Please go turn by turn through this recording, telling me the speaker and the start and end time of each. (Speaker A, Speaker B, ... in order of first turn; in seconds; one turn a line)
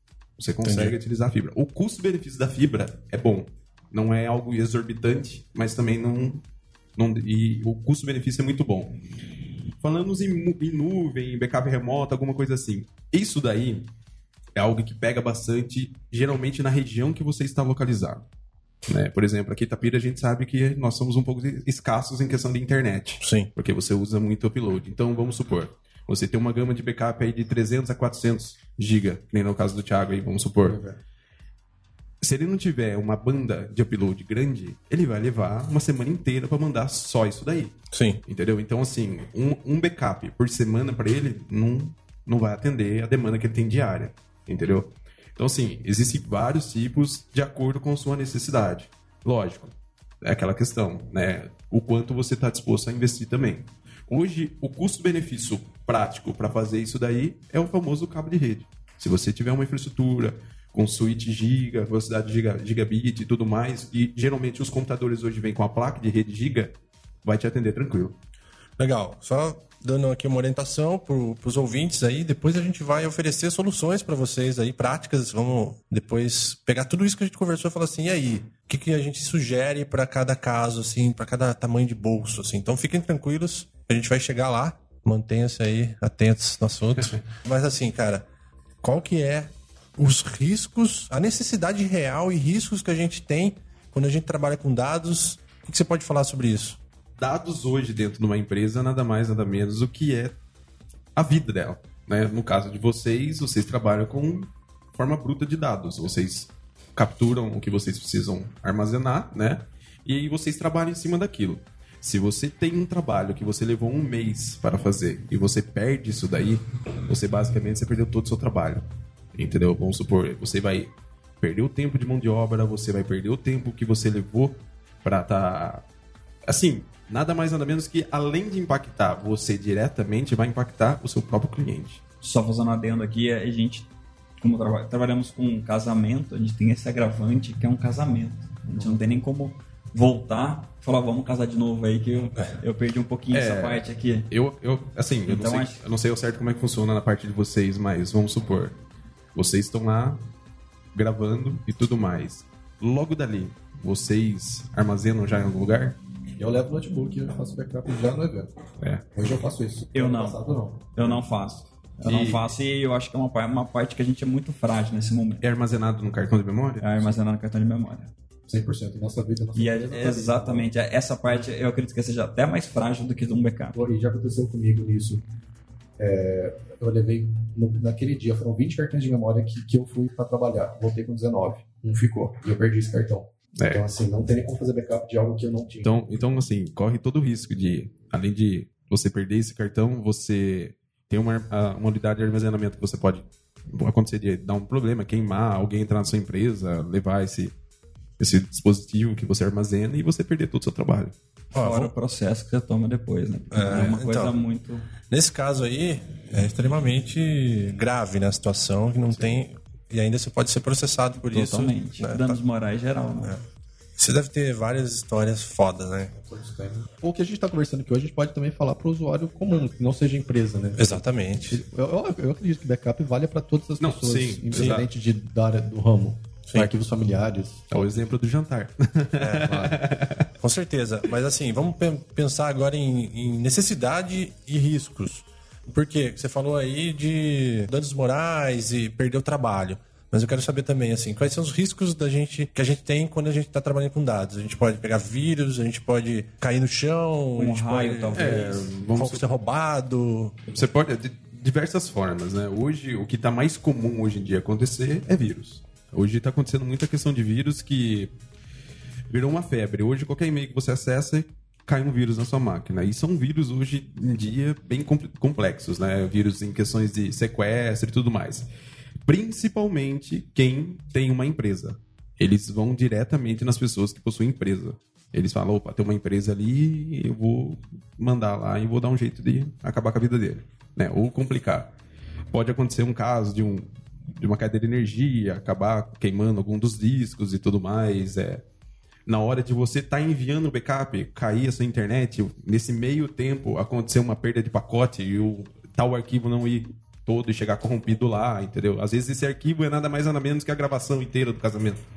Speaker A: 0.4-6.4
Speaker B: 0.6-1.0
Speaker A: 7.0-9.0
Speaker A: 9.8-13.9
Speaker A: 14.6-18.2
Speaker A: 18.9-30.8
Speaker B: 23.2-23.5
Speaker C: 30.7-31.0
Speaker A: 32.2-68.2
Speaker B: 37.9-38.2
Speaker B: 68.8-88.2
Speaker B: 88.8-96.8
Speaker A: 97.2-100.4
Speaker A: 101.2-125.8
Speaker A: 126.5-132.0
Speaker D: 132.2-133.9
Speaker D: 134.4-144.3
Speaker A: 143.3-148.8
Speaker D: 145.3-145.8
Speaker A: 149.3-150.2
Speaker A: 150.9-156.0
Speaker C: 156.4-158.6
Speaker C: 159.1-161.2
Speaker D: 159.9-165.4
Speaker A: 162.1-162.5
Speaker A: 165.4-167.2
Speaker D: 166.8-168.1
Speaker C: 168.5-170.7
Speaker D: 169.6-173.8
Speaker C: 173.8-175.2
Speaker C: 176.0-185.9
Speaker A: 183.6-183.9
Speaker A: 185.8-197.5
Speaker A: 198.2-201.1
Speaker B: 201.5-201.9
Speaker D: 201.6-204.9
Speaker B: 203.5-204.3
Speaker A: 203.7-204.0
Speaker B: 205.1-212.4
Speaker D: 211.3-213.4
Speaker B: 214.0-216.1
Speaker C: 216.2-221.0
Speaker B: 220.8-221.6
Speaker C: 221.5-227.6
Speaker A: 223.8-224.9
Speaker B: 224.5-224.8
Speaker A: 227.7-230.3
Speaker B: 229.2-229.6
Speaker C: 229.5-229.8
Speaker B: 230.4-250.4
Speaker D: 247.4-248.6
Speaker A: 248.1-249.3
Speaker A: 250.5-258.1
Speaker A: 259.1-268.5
Speaker A: 269.1-281.7
Speaker A: 282.3-288.4
Speaker A: 289.1-301.8